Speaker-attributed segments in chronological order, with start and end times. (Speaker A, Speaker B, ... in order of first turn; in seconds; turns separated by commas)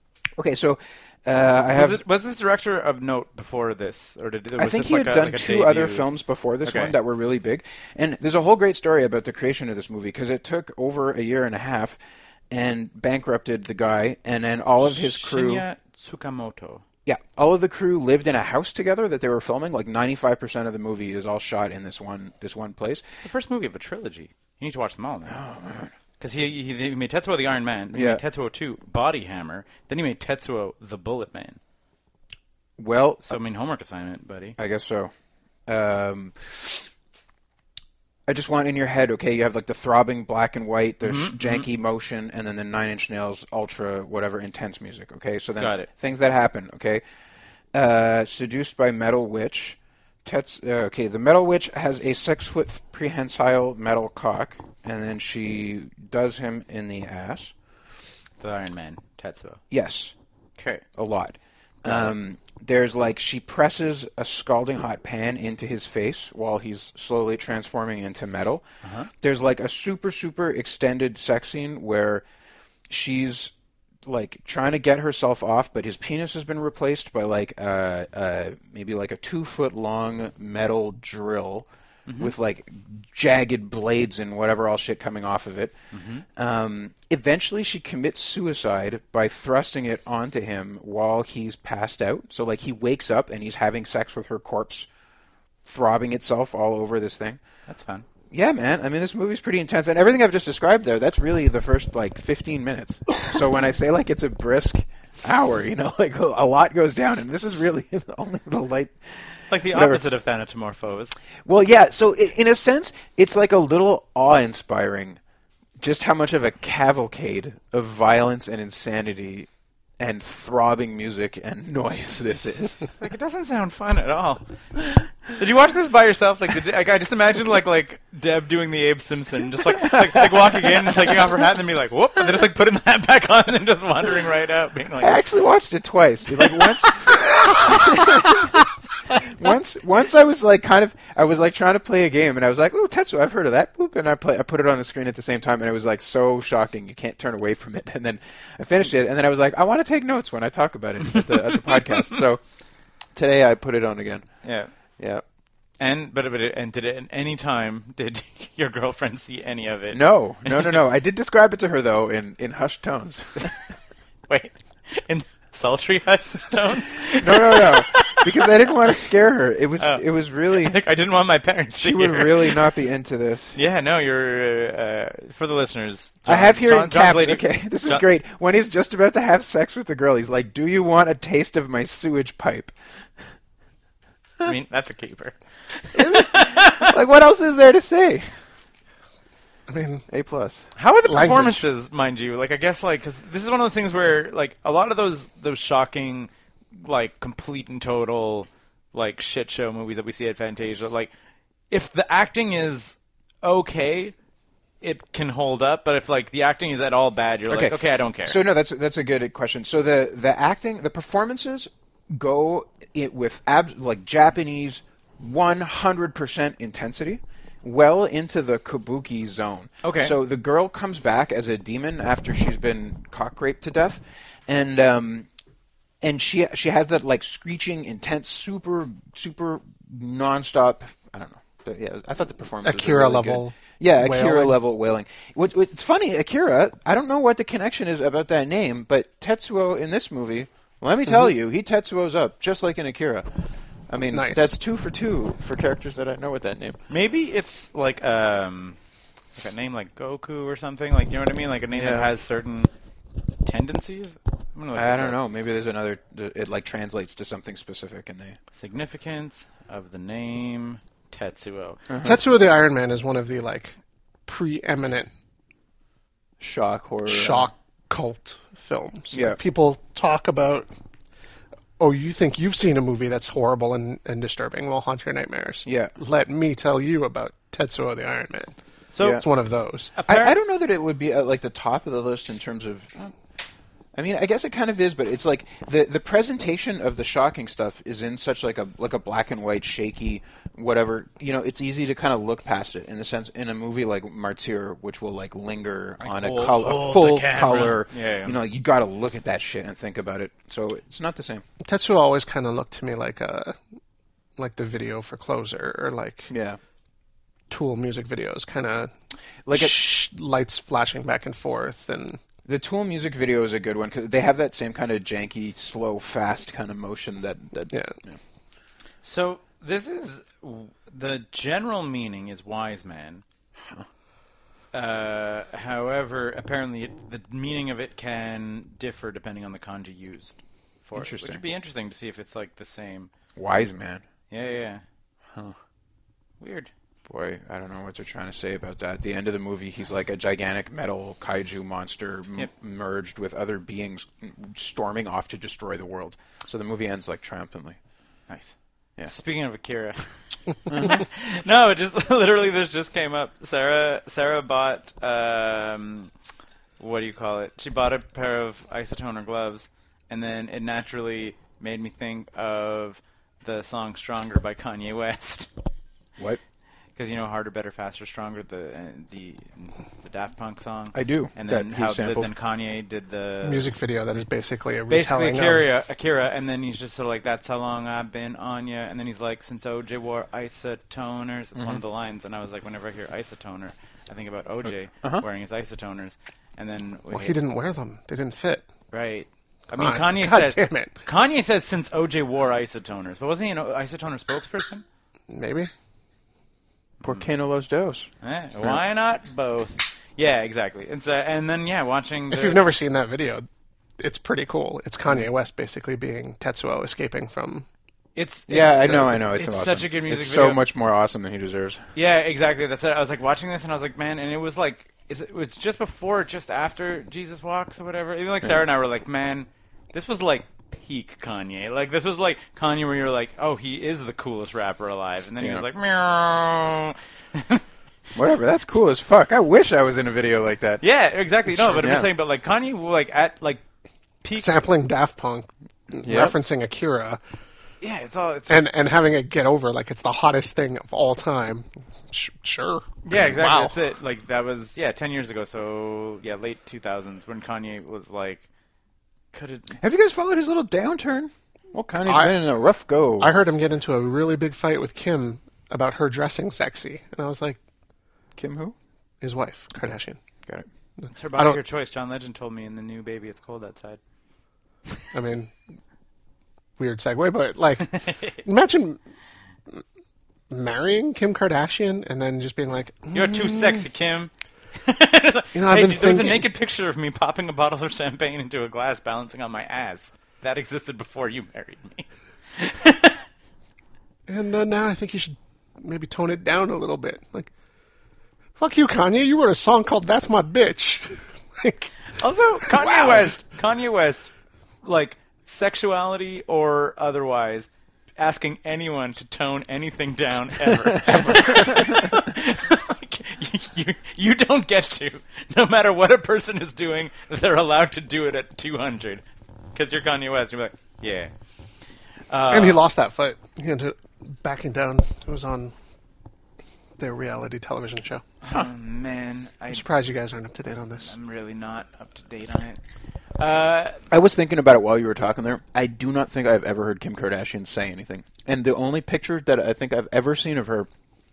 Speaker A: 0.4-2.0, Speaker B: 1.7-6.1, Speaker A: 4.5-12.0, Speaker B: 6.6-7.0, Speaker A: 12.5-15.7, Speaker B: 14.8-16.8, Speaker A: 17.1-23.0, Speaker B: 23.1-25.4, Speaker A: 25.3-25.9, Speaker B: 26.2-31.6, Speaker A: 27.9-28.2, Speaker A: 32.8-33.4, Speaker B: 33.3-34.6, Speaker A: 34.6-35.1, Speaker A: 35.7-36.9, Speaker A: 38.3-47.0, Speaker B: 41.0-41.7, Speaker B: 45.6-45.9, Speaker A: 47.7-57.5, Speaker B: 58.4-59.6, Speaker A: 59.7-60.1, Speaker B: 60.6-60.9, Speaker A: 61.0-68.6, Speaker B: 61.8-62.2, Speaker B: 68.8-69.1, Speaker A: 69.2-72.2, Speaker A: 72.9-73.5, Speaker A: 74.0-81.7, Speaker B: 82.1-82.3, Speaker A: 82.2-85.8, Speaker B: 85.9-86.2, Speaker A: 86.4-94.9, Speaker A: 95.7-97.4, Speaker B: 97.7-98.1, Speaker A: 98.3-110.0, Speaker B: 109.5-111.2, Speaker A: 111.5-115.2, Speaker A: 115.8-119.5, Speaker A: 120.0-122.9, Speaker B: 123.0-135.2, Speaker A: 129.9-130.5, Speaker A: 135.0-138.6, Speaker B: 136.4-136.7, Speaker A: 139.2-152.4, Speaker B: 151.1-152.2, Speaker A: 153.2-154.3, Speaker B: 154.4-154.7, Speaker A: 155.0-155.2, Speaker B: 155.8-160.8, Speaker A: 159.9-163.5, Speaker B: 164.3-168.9, Speaker A: 167.2-170.8, Speaker B: 169.8-172.8, Speaker A: 171.8-173.6, Speaker B: 173.6-178.0, Speaker A: 176.3-182.7, Speaker B: 184.4-186.9, Speaker A: 185.9-188.3, Speaker C: 189.7-190.1, Speaker A: 190.1-190.7, Speaker B: 190.8-201.1, Speaker C: 191.1-191.7, Speaker B: 201.7-204.2, Speaker B: 204.8-208.4, Speaker A: 207.5-225.3, Speaker B: 219.8-220.2, Speaker A: 226.0-243.3, Speaker C: 232.6-234.6, Speaker A: 243.9-246.8, Speaker C: 244.1-244.6, Speaker B: 246.9-248.8, Speaker B: 249.4-252.7, Speaker A: 251.7-252.1, Speaker B: 253.4-255.2, Speaker A: 254.8-258.4, Speaker B: 258.5-261.9, Speaker A: 261.9-262.2, Speaker C: 262.0-263.8, Speaker C: 264.3-265.1, Speaker A: 266.4-267.5, Speaker C: 267.1-270.7, Speaker A: 269.1-269.4, Speaker C: 271.8-278.5, Speaker A: 275.6-275.9, Speaker B: 278.9-279.2, Speaker C: 279.1-279.9, Speaker B: 279.9-280.4, Speaker A: 280.1-283.1, Speaker A: 283.9-301.4, Speaker B: 296.0-298.4, Speaker C: 301.6-303.6, Speaker C: 304.4-306.3, Speaker A: 306.3-306.6, Speaker C: 307.5-308.9, Speaker A: 309.5-309.8, Speaker C: 309.5-312.2, Speaker A: 312.5-318.2, Speaker C: 317.7-317.9, Speaker B: 319.0-323.2, Speaker B: 324.7-333.1, Speaker A: 330.9-331.4, Speaker A: 333.4-334.0, Speaker B: 334.3-334.8, Speaker B: 336.4-336.7, Speaker A: 337.1-347.8, Speaker B: 348.3-350.1, Speaker B: 350.6-356.1, Speaker A: 350.7-351.0, Speaker B: 356.8-365.5, Speaker B: 367.0-373.7, Speaker A: 370.9-372.3, Speaker C: 373.4-375.8, Speaker B: 374.9-387.4, Speaker C: 387.1-388.7, Speaker B: 388.9-394.8, Speaker C: 389.7-391.0, Speaker C: 395.3-395.7, Speaker A: 397.0-398.1, Speaker B: 398.2-402.6, Speaker C: 402.3-403.5, Speaker C: 404.0-407.7, Speaker B: 408.2-410.6, Speaker A: 408.5-411.8, Speaker B: 411.9-427.6, Speaker A: 428.1-430.8, Speaker B: 430.8-433.6, Speaker A: 431.5-432.1, Speaker B: 434.2-434.5, Speaker C: 434.4-437.2, Speaker A: 436.0-436.4, Speaker B: 437.8-438.6, Speaker C: 438.5-443.8, Speaker B: 443.1-448.5, Speaker B: 449.3-449.8, Speaker A: 449.8-453.3, Speaker C: 452.1-452.4, Speaker C: 453.2-457.6, Speaker A: 458.4-458.8, Speaker C: 459.2-460.2, Speaker C: 461.0-461.6, Speaker B: 461.1-464.0, Speaker C: 465.1-465.5, Speaker C: 466.8-469.0, Speaker C: 470.5-473.9, Speaker B: 473.1-483.2, Speaker C: 475.6-476.5, Speaker C: 484.3-487.5, Speaker C: 488.6-491.9, Speaker B: 492.2-494.3, Speaker C: 492.7-493.1, Speaker B: 494.8-511.3, Speaker B: 512.3-512.9, Speaker C: 512.5-515.7, Speaker C: 517.0-518.2, Speaker B: 518.4-519.9, Speaker C: 519.7-521.1, Speaker B: 521.0-522.8, Speaker B: 523.4-524.0, Speaker A: 524.1-530.9